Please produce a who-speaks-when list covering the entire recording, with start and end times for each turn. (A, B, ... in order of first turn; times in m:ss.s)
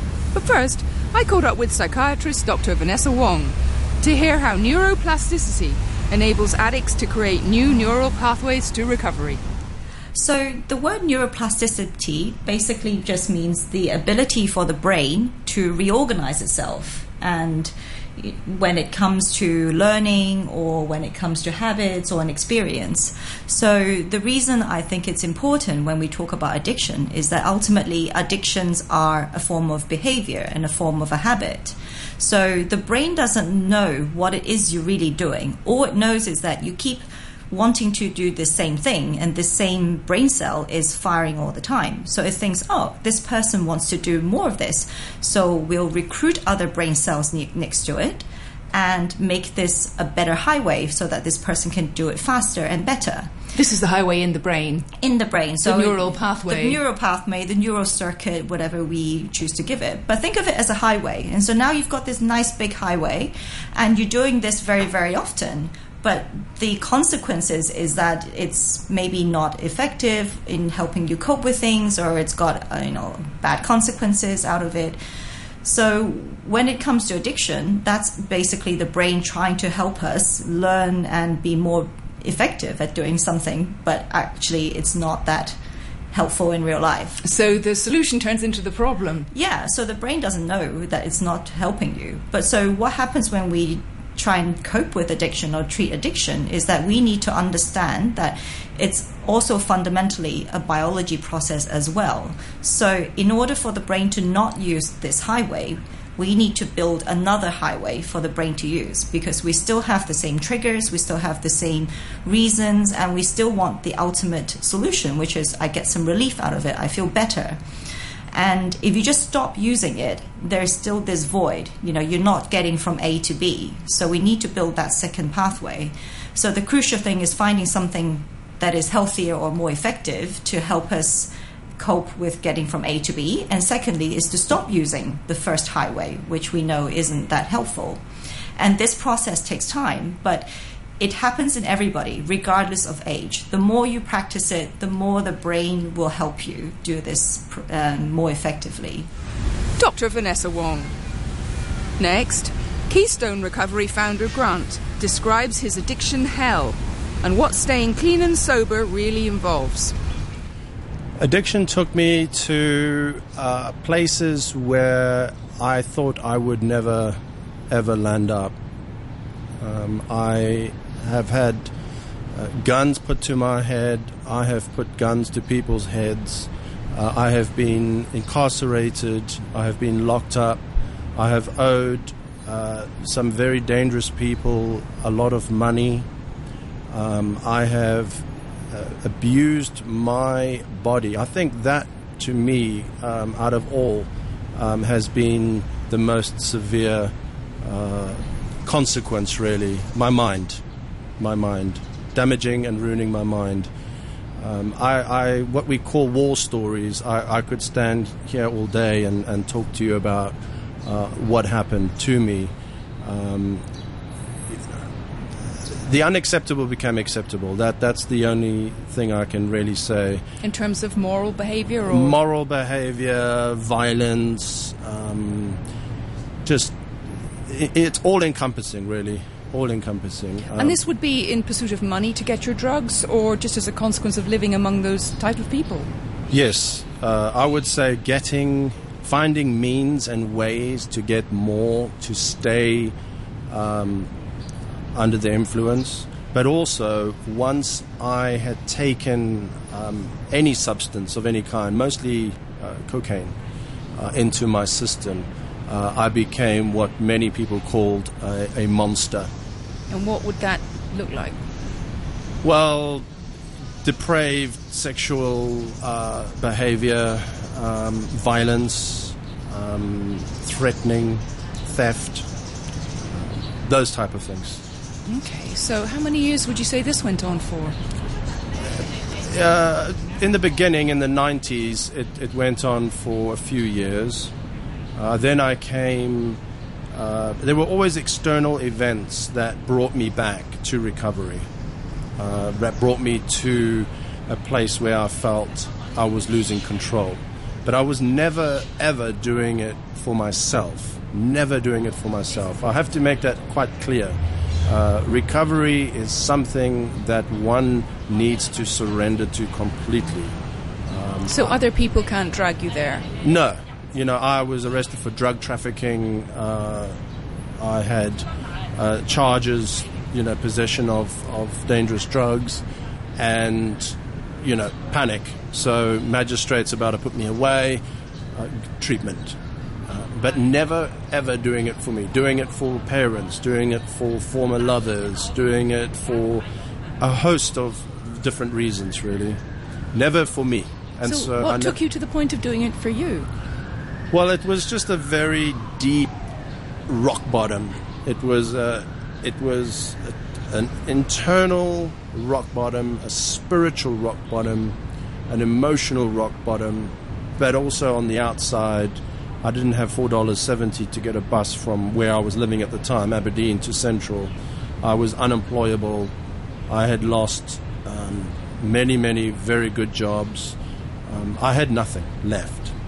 0:00.3-0:09.4 A
0:10.2-0:53.4 B
0:53.5-0:54.9 A
0:55.0-1:15.0 B
0:55.6-0:56.8 A
1:15.6-1:25.6 B
1:26.1-1:27.2 B
1:27.2-1:29.3 A
1:29.3-1:57.6 B
1:58.3-2:18.0 B
2:18.6-2:20.5 B
2:21.0-2:29.1 B
2:29.8-2:30.9 A
2:32.0-2:39.9 A
2:41.2-2:48.5 C
2:49.6-2:51.7 C
2:52.3-3:00.6 C
3:01.2-3:06.1 C
3:06.9-3:20.6 C
3:21.2-3:23.7 C
3:24.4-3:33.6 C
3:34.5-3:34.8 C
3:35.6-3:40.2 C
3:40.4-3:42.2 A
3:41.9-3:45.6 C
3:46.4-3:46.8 C
3:47.5-3:50.8 C
3:50.6-3:55.9 A
3:56.3-4:03.0 C
4:03.5-4:04.1 C
4:04.9-4:13.4 C
4:14.0-4:19.3 C
4:19.9-4:21.4 A
4:22.4-4:23.1 C
4:23.8-4:32.3 C
4:33.1-4:34.6 C
4:35.1-4:37.8 A
4:39.2-4:44.3 C
4:45.0-4:46.4 C
4:46.9-4:51.5 C
4:52.2-5:10.4 C
5:10.9-5:11.6 C
5:11.3-5:13.1 A
5:13.2-5:17.0 C
5:17.6-5:22.6 C
5:23.2-5:27.8 C
5:28.3-5:29.4 C
5:29.9-5:36.5 C
5:37.0-5:39.4 C
5:39.9-5:41.8 C
5:41.0-5:43.3 A
5:44.1-5:46.1 C
5:46.9-5:54.8 C
5:55.3-6:06.1 C
6:06.7-6:12.7 C